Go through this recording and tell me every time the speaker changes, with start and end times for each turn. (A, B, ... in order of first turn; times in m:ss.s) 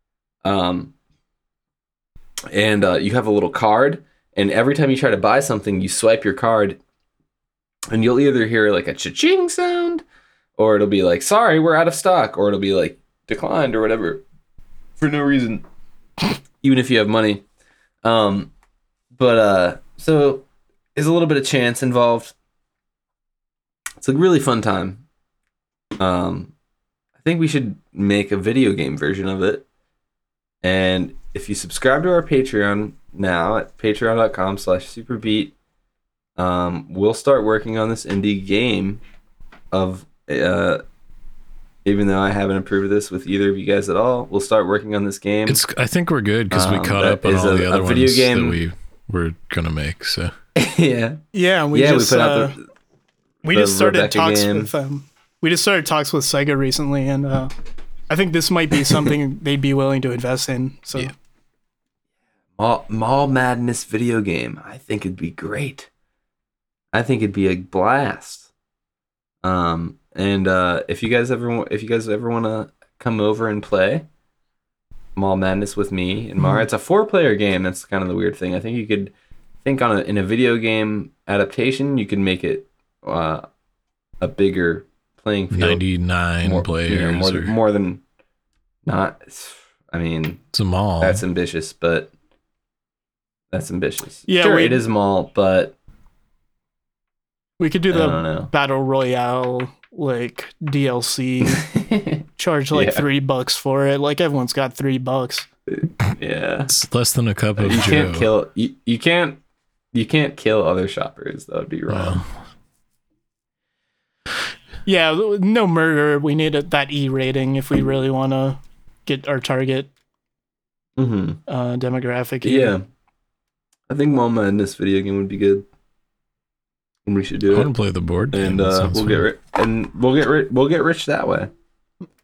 0:00.4-0:00.9 A
0:02.5-0:06.8 A
0:07.9-0:10.0 A
0:10.6-0:14.2 A
0:15.0-0:15.6 A
0:16.6-0:17.4 A
0:18.0-0:18.5 A
0:19.1-0:20.4 A
0:21.0-0:22.3 A
0:24.0-0:25.0 A
0:26.0-0:26.5 A
0:27.2-0:29.6 A
0:30.6-0:35.5 A
0:36.4-0:39.0 A
0:39.7-0:40.8 A
0:41.8-0:45.6 A
0:45.5-0:50.3 B
0:46.5-0:48.6 A
0:50.6-0:51.2 A
0:51.3-0:52.6 C
0:51.7-0:52.6 A
0:53.4-0:57.5 C
0:53.5-0:54.7 A
0:58.1-1:01.1 C
1:02.6-1:05.9 A
1:06.9-1:08.5 A
1:09.4-1:14.0 A
1:15.2-1:19.1 A
1:16.4-1:16.6 C
1:19.6-1:23.4 A
1:24.2-1:25.8 A
1:25.5-1:27.5 B
1:26.4-1:28.0 A
1:28.8-1:30.4 A
1:30.5-1:31.2 B
1:31.0-1:32.1 A
1:33.5-1:35.7 A
1:34.3-1:34.8 C
1:37.6-1:41.6 C
1:37.9-1:38.5 A
1:41.4-1:43.0 A
1:42.4-1:45.5 C
1:45.7-1:46.7 A
1:46.7-1:48.3 B
1:47.6-1:49.4 A
1:49.9-1:52.2 A
1:51.9-1:52.3 B
1:54.8-1:59.9 C
2:01.0-2:01.4 A
2:01.5-2:02.7 C
2:02.4-2:02.8 A
2:03.9-2:05.6 A
2:07.0-2:07.7 A
2:07.5-2:09.2 B
2:08.3-2:11.5 A